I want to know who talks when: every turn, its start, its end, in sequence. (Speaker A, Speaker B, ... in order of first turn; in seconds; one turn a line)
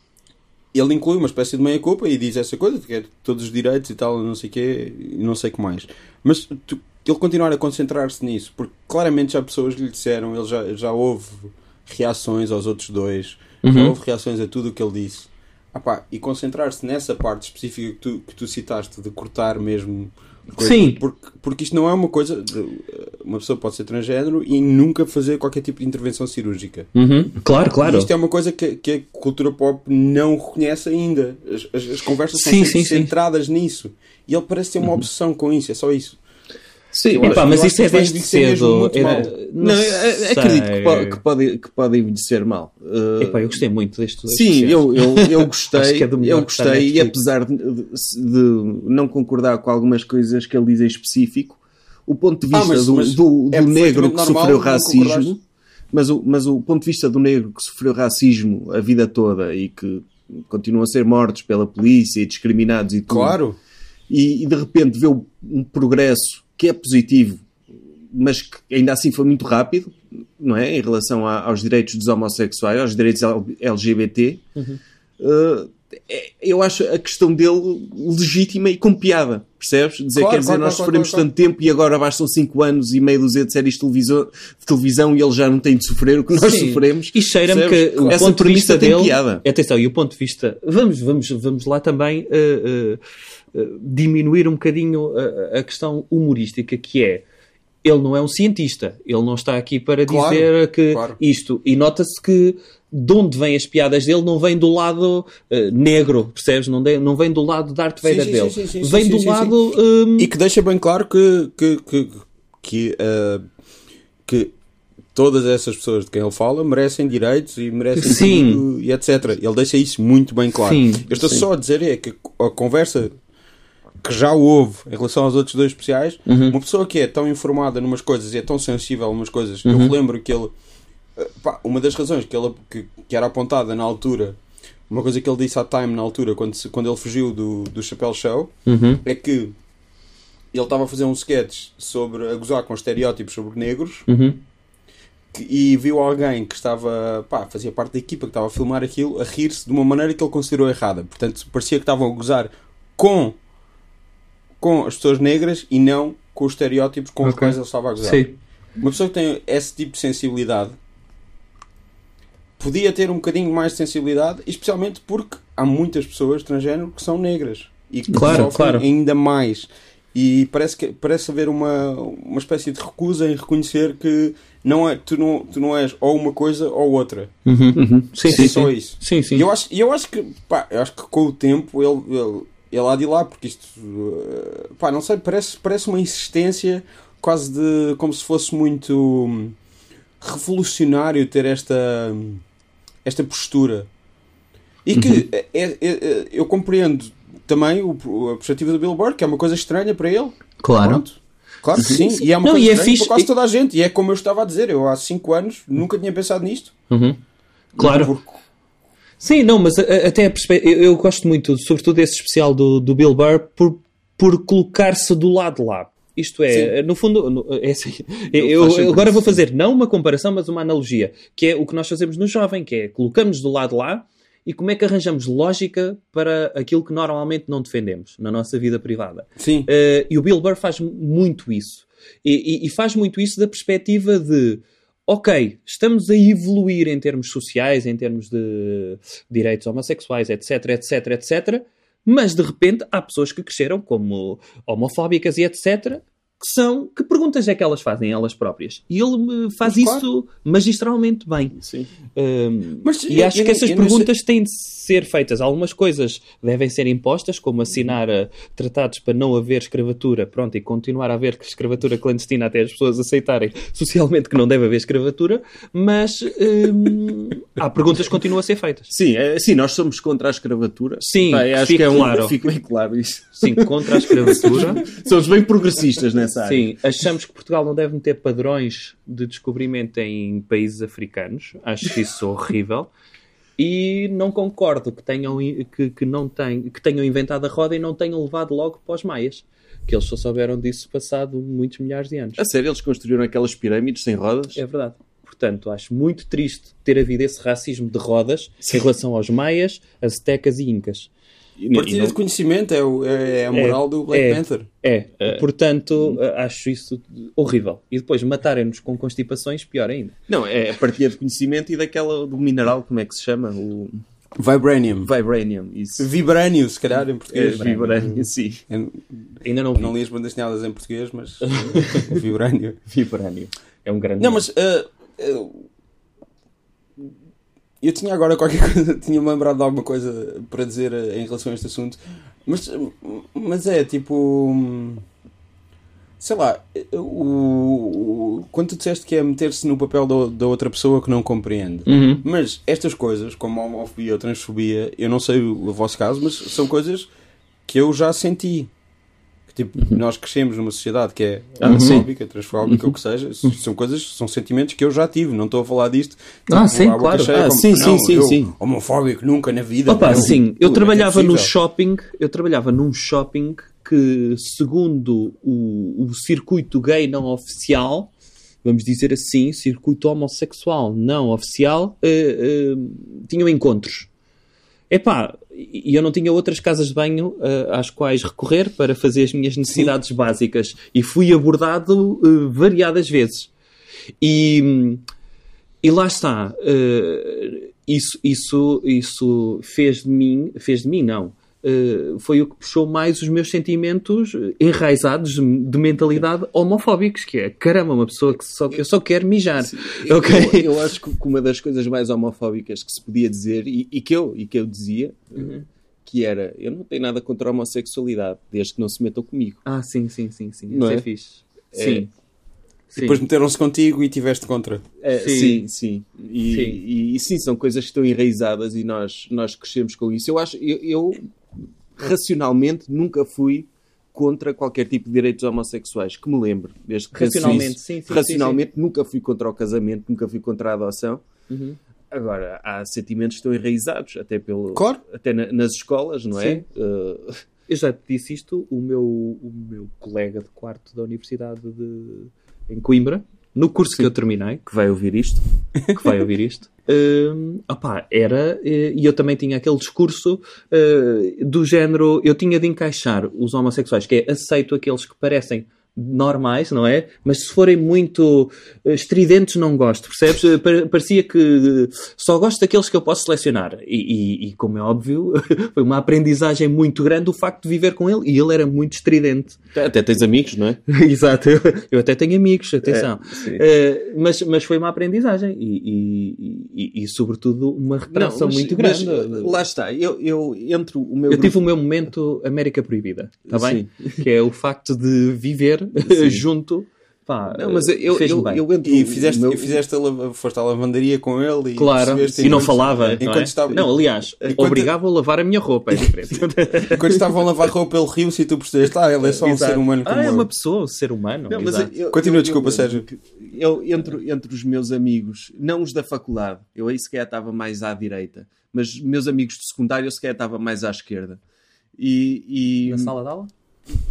Speaker A: 0.7-26.9
Speaker B: 13.6-13.9
Speaker B: 20.6-21.0
Speaker B: 26.9-28.1
Speaker A: 27.8-36.2
Speaker B: 32.3-33.1
Speaker C: 36.9-37.5
Speaker A: 37.1-39.3
Speaker B: 37.2-41.2
Speaker C: 39.6-43.6
Speaker B: 43.2-47.1
Speaker C: 44.3-55.4
Speaker A: 52.5-55.3
Speaker C: 55.9-63.4
Speaker A: 63.1-63.6
Speaker C: 64.1-67.5
Speaker C: 68.1-74.4
Speaker C: 75.2-89.4
Speaker A: 80.1-81.2
Speaker B: 86.3-93.0
Speaker B: 93.5-97.2
Speaker B: 97.8-110.3
Speaker A: 100.1-101.2
Speaker A: 108.0-109.5
Speaker A: 110.2-113.4
Speaker A: 114.3-114.5
Speaker A: 115.1-123.1
Speaker B: 118.0-118.6
Speaker B: 120.6-121.1
Speaker A: 124.0-130.5
Speaker B: 126.3-126.5
Speaker B: 129.6-129.9
Speaker A: 131.2-134.4
Speaker A: 134.9-138.5
Speaker B: 138.7-139.0
Speaker A: 139.0-139.5
Speaker A: 140.5-144.1
Speaker B: 144.1-144.4
Speaker A: 145.3-153.4
Speaker A: 154.6-158.2
Speaker B: 157.2-158.3
Speaker A: 158.8-160.8
Speaker A: 162.6-177.3
Speaker B: 168.1-168.8
Speaker B: 177.4-179.4
Speaker C: 177.7-178.7
Speaker A: 178.2-189.6
Speaker A: 190.2-192.4
Speaker A: 193.0-193.9
Speaker A: 194.8-206.7
Speaker C: 194.9-195.2
Speaker B: 200.6-201.0
Speaker B: 201.8-203.3
Speaker B: 206.9-207.2
Speaker B: 207.8-208.1
Speaker A: 207.8-208.3
Speaker B: 209.2-251.6
Speaker A: 218.4-219.0
Speaker C: 218.6-219.1
Speaker A: 229.4-229.7
Speaker A: 249.6-250.1
Speaker C: 251.6-251.9
Speaker B: 252.1-268.9
Speaker A: 252.8-254.1
Speaker C: 268.9-276.7
Speaker B: 271.0-272.4
Speaker B: 273.4-274.9
Speaker B: 276.4-282.9
Speaker B: 283.6-292.4
Speaker C: 292.4-294.6
Speaker B: 294.5-301.1
Speaker C: 301.6-302.2
Speaker A: 301.7-304.7
Speaker B: 303.5-310.1
Speaker C: 310.3-314.0
Speaker A: 314.4-315.1
Speaker C: 315.0-316.1
Speaker A: 316.0-322.8
Speaker C: 317.3-318.6
Speaker B: 317.6-318.1
Speaker B: 319.4-319.9
Speaker B: 321.5-322.1
Speaker B: 322.9-324.4
Speaker A: 324.2-325.6
Speaker A: 327.8-335.0
Speaker A: 336.2-347.1
Speaker B: 341.9-342.2
Speaker A: 347.7-348.7
Speaker A: 349.5-361.5
Speaker C: 351.6-352.1
Speaker B: 351.6-352.0
Speaker C: 352.6-352.9
Speaker B: 356.5-357.4
Speaker C: 357.3-358.5
Speaker B: 359.9-368.1
Speaker C: 360.0-360.8
Speaker B: 368.6-374.1
Speaker B: 374.9-383.5
Speaker B: 384.2-385.0
Speaker B: 385.8-400.7
Speaker C: 399.6-409.6
Speaker B: 405.4-405.6
Speaker B: 409.6-412.1
Speaker C: 410.7-411.1
Speaker C: 411.7-412.1
Speaker B: 412.9-413.2
Speaker A: 413.0-414.8
Speaker C: 415.0-421.3
Speaker B: 415.1-415.6
Speaker B: 416.5-416.8
Speaker C: 422.0-431.2
Speaker B: 427.1-428.6
Speaker B: 431.5-431.8
Speaker C: 432.1-437.4
Speaker A: 434.7-435.0
Speaker B: 436.3-436.6
Speaker B: 437.7-444.6
Speaker C: 444.6-445.4
Speaker B: 445.9-469.6
Speaker C: 469.7-470.8
Speaker B: 470.9-479.6
Speaker C: 472.8-473.6
Speaker C: 478.1-481.6
Speaker B: 481.3-488.6
Speaker C: 483.5-484.2
Speaker C: 486.0-486.4
Speaker C: 487.5-489.8
Speaker A: 488.8-494.9
Speaker B: 491.8-497.0
Speaker C: 492.2-493.9
Speaker C: 494.4-494.7
Speaker A: 496.9-500.5
Speaker B: 499.2-501.9
Speaker C: 501.5-511.4
Speaker A: 502.1-503.1
Speaker C: 512.0-513.1
Speaker B: 512.9-513.5